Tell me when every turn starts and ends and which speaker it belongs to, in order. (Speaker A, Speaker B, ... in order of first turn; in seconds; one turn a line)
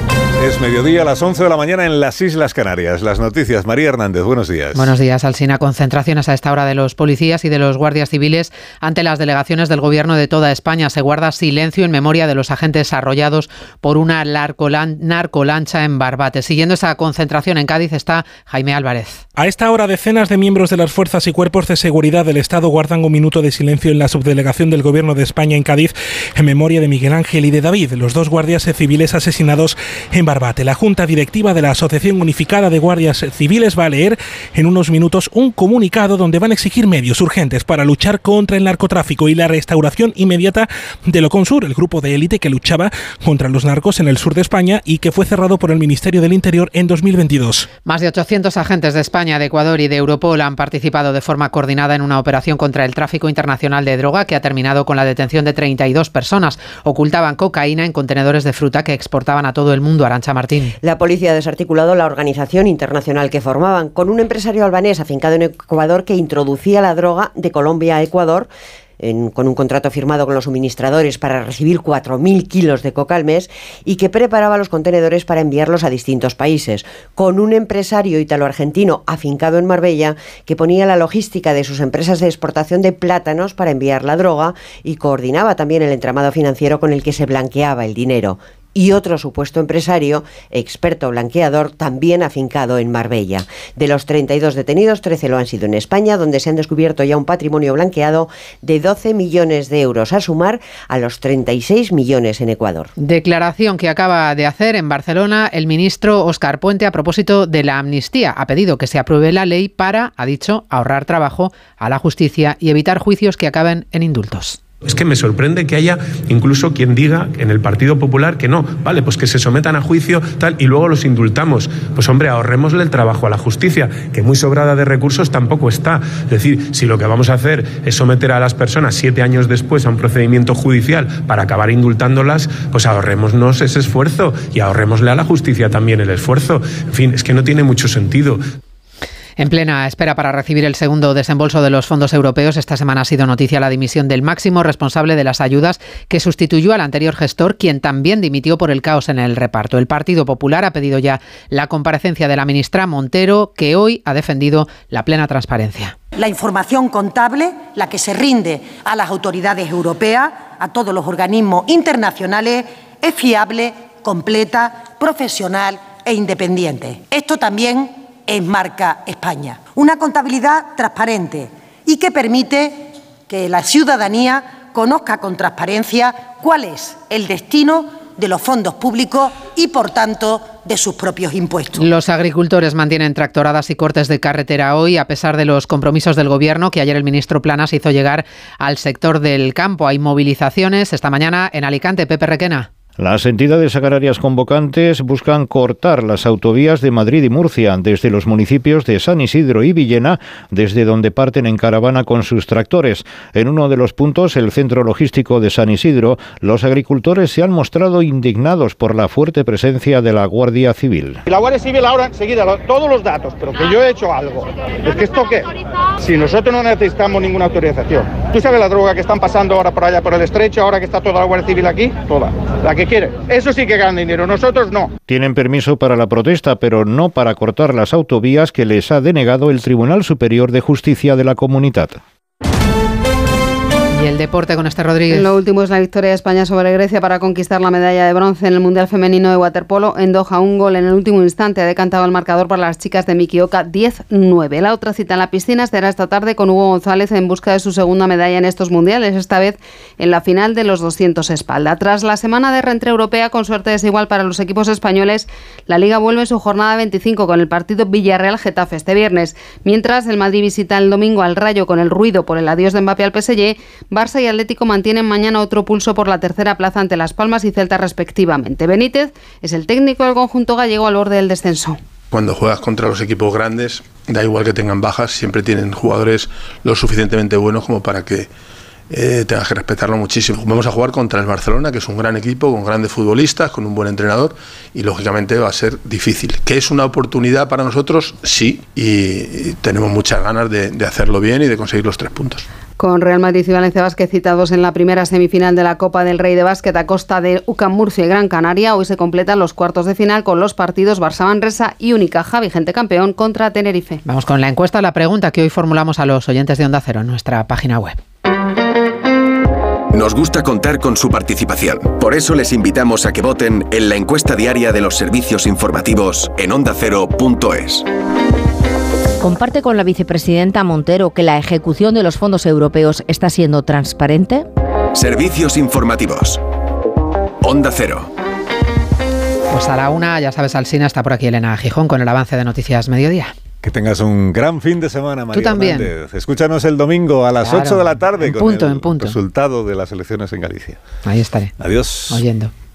Speaker A: 0.4-4.9
Speaker B: 4.7-19.2
Speaker C: 19.4-47.7
Speaker B: 47.8-60.8
Speaker D: 60.8-102.9
Speaker B: 103.0-114.6
Speaker E: 114.8-138.4
Speaker B: 139.4-155.9
Speaker F: 156.2-181.9
Speaker B: 181.8-192.7
Speaker G: 193.0-211.2
Speaker H: 211.3-215.5
Speaker H: 216.0-224.9
Speaker G: 225.1-232.0
Speaker B: 233.9-235.4
Speaker I: 235.1-271.8
Speaker J: 272.1-278.3
Speaker J: 278.9-292.4
Speaker I: 292.8-304.0
Speaker B: 304.1-308.0
Speaker K: 309.9-317.8
Speaker L: 319.2-324.4
Speaker K: 324.9-326.4
Speaker K: 327.4-328.1
Speaker B: 329.5-333.3
Speaker A: 333.6-340.8
Speaker B: 335.3-335.9
Speaker B: 337.4-339.2
Speaker B: 341.0-341.6
Speaker A: 341.6-342.2
Speaker B: 342.1-342.5